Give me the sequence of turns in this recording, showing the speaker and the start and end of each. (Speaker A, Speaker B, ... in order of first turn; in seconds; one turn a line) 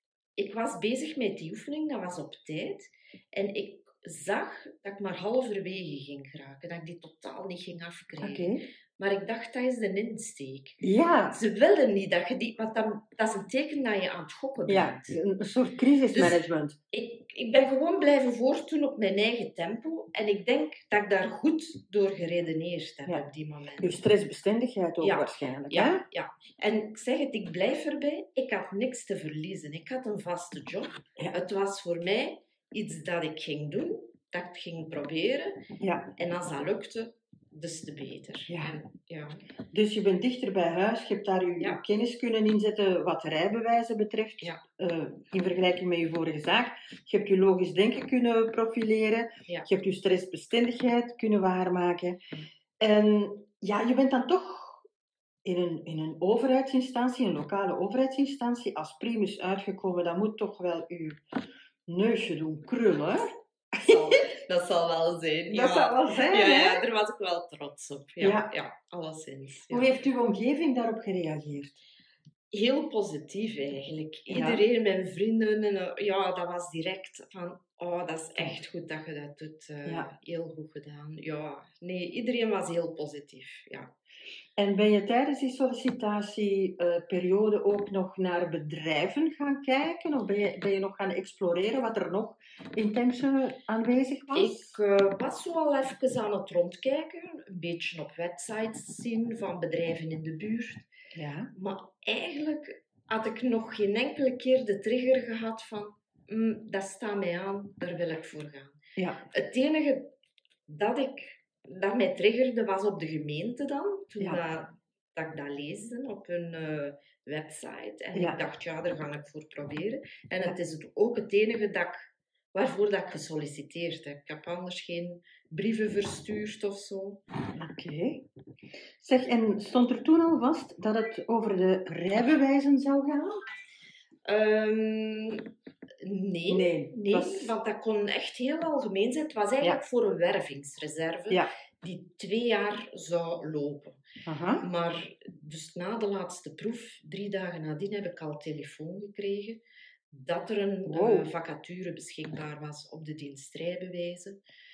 Speaker A: 0.4-10.8
Speaker B: 8.2-8.6
Speaker B: 10.8-11.4
Speaker A: 11.3-15.2
Speaker B: 14.7-16.8
Speaker A: 16.1-24.0
Speaker B: 23.8-26.0
Speaker A: 25.0-35.6
Speaker B: 35.8-36.1
Speaker A: 36.2-39.4
Speaker B: 38.5-38.8
Speaker B: 39.7-52.2
Speaker B: 52.8-54.9
Speaker B: 55.5-61.2
Speaker B: 61.9-64.2
Speaker A: 63.8-69.9
Speaker B: 65.5-66.8
Speaker B: 68.2-68.5
Speaker B: 69.7-71.8
Speaker A: 72.5-83.9
Speaker B: 74.3-74.6
Speaker B: 84.6-94.8
Speaker A: 94.3-100.9
Speaker B: 101.2-101.5
Speaker A: 101.5-108.8
Speaker A: 109.3-110.1
Speaker A: 110.7-127.2
Speaker B: 118.1-118.4
Speaker B: 127.6-128.3
Speaker B: 129.0-133.4
Speaker A: 134.2-135.5
Speaker A: 136.0-144.0
Speaker B: 136.5-137.6
Speaker B: 144.3-144.7
Speaker A: 144.6-154.4
Speaker B: 150.8-151.3